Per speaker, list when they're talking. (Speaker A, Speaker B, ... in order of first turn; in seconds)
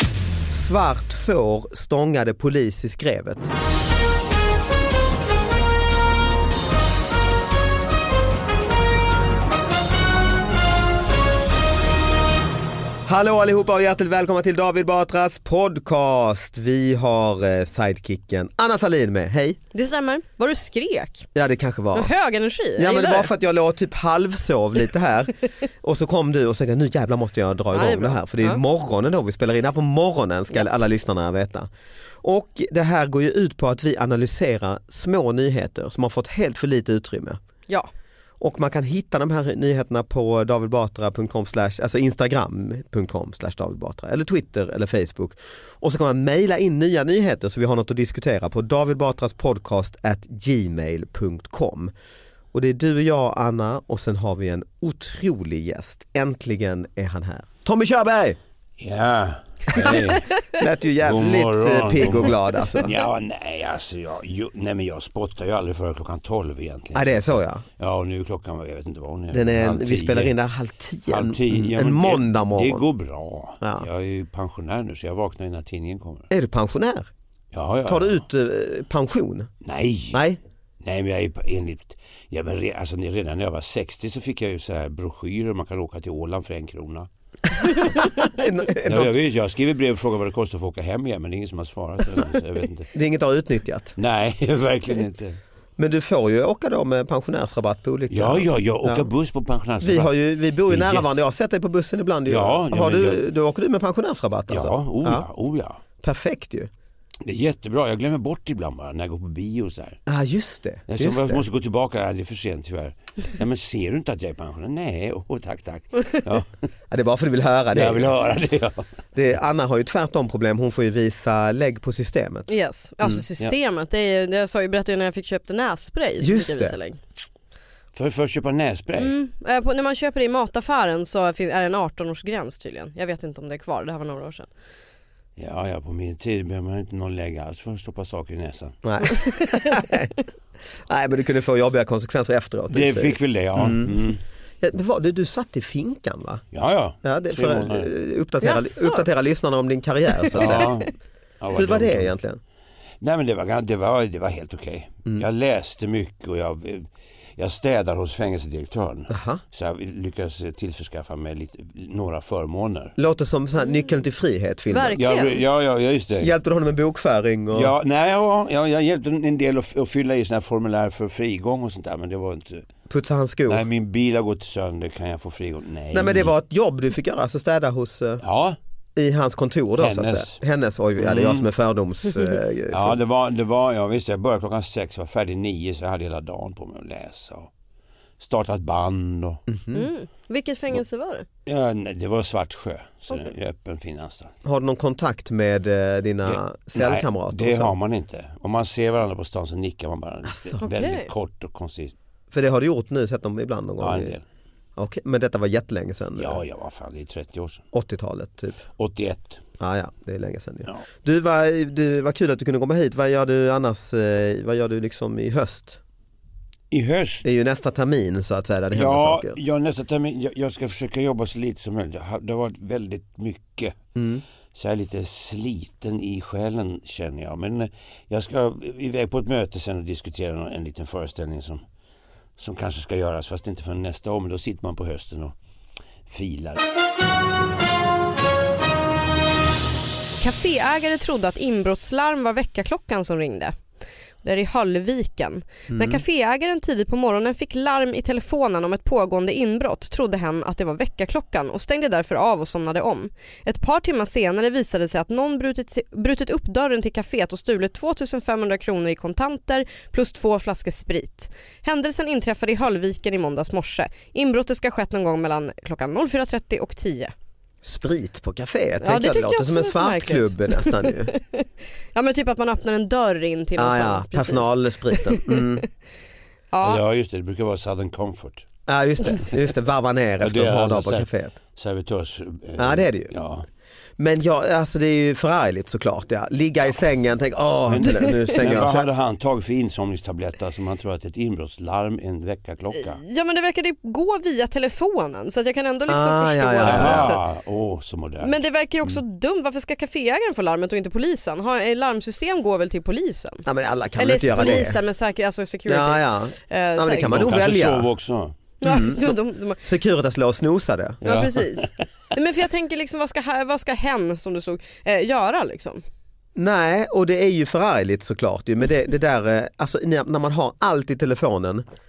Speaker A: 0.5-3.5, 13.0-19.6, 21.3-22.1, 22.7-31.7, 32.2-37.4, 38.4-51.9, 52.5-58.4, 60.5-63.0, 66.9-67.6, 69.3-72.8, 73.6-73.9, 76.3-77.1, 77.8-79.5, 80.1-80.4, 87.8-89.2, 92.9-93.9, 95.8-99.1, 99.8-105.3, 106.0-106.7, 110.1-111.4, 116.9-118.1, 119.1-122.5, 126.2-126.8, 138.8-140.1, 140.7-144.0, 144.6-146.4, 147.0-150.8, 151.5-152.4, 159.1-159.4, 163.0-165.0, 166.2-167.7, 172.9-173.7, 175.9-178.2, 178.9-183.0, 189.5-189.9, 194.4-197.8, 200.2-200.6, 202.3-204.1, 204.8-206.4, 207.7-208.6, 209.6-215.8, 217.2-219.4, 223.9-224.2, 245.7-246.0, 267.6-271.1, 273.6-275.6, 278.7-281.4, 282.6-283.1, 284.0-288.9, 295.9-297.2, 303.4-304.8, 305.7-307.9, 308.6-311.0, 316.4-321.6
Speaker B: 19.7-21.3, 21.9-23.3, 27.7-28.6, 122.5-127.0, 129.0-134.5, 139.2-139.8, 148.4-149.1, 164.7-165.4, 189.7-191.2, 200.6-201.1, 240.2-243.6, 244.2-267.1, 268.8-275.6, 276.5-276.8, 287.8-288.3, 292.7-297.2, 298.2-303.4, 304.0-307.2, 308.6-309.7, 311.0-315.8
Speaker C: 58.8-60.2, 61.0-70.3, 71.1-76.3, 77.5-78.2, 79.6-80.2, 80.8-87.1, 88.8-92.9, 94.0-95.4, 98.1-100.1, 100.7-101.1, 102.2-103.2, 104.5-105.8, 107.2-110.0, 110.9-116.5, 117.7-118.8, 127.9-129.1, 135.4-138.8, 142.7-144.2, 146.5-147.9, 150.3-152.1, 153.0-162.9, 164.9-166.3, 167.5-172.7, 173.5-176.3, 178.2-178.6, 179.8-180.4, 181.0-181.5, 182.7-187.5, 188.2-189.4, 191.4-194.3, 196.2-201.9, 203.8-204.2, 206.2-207.6, 208.8-209.4, 216.7-217.3, 218.7-223.8, 224.5-231.6, 232.4-235.3, 236.1-236.6, 276.6-278.5, 280.2-283.5, 287.6-293.0, 296.6-298.4, 307.0-308.3, 311.0-311.7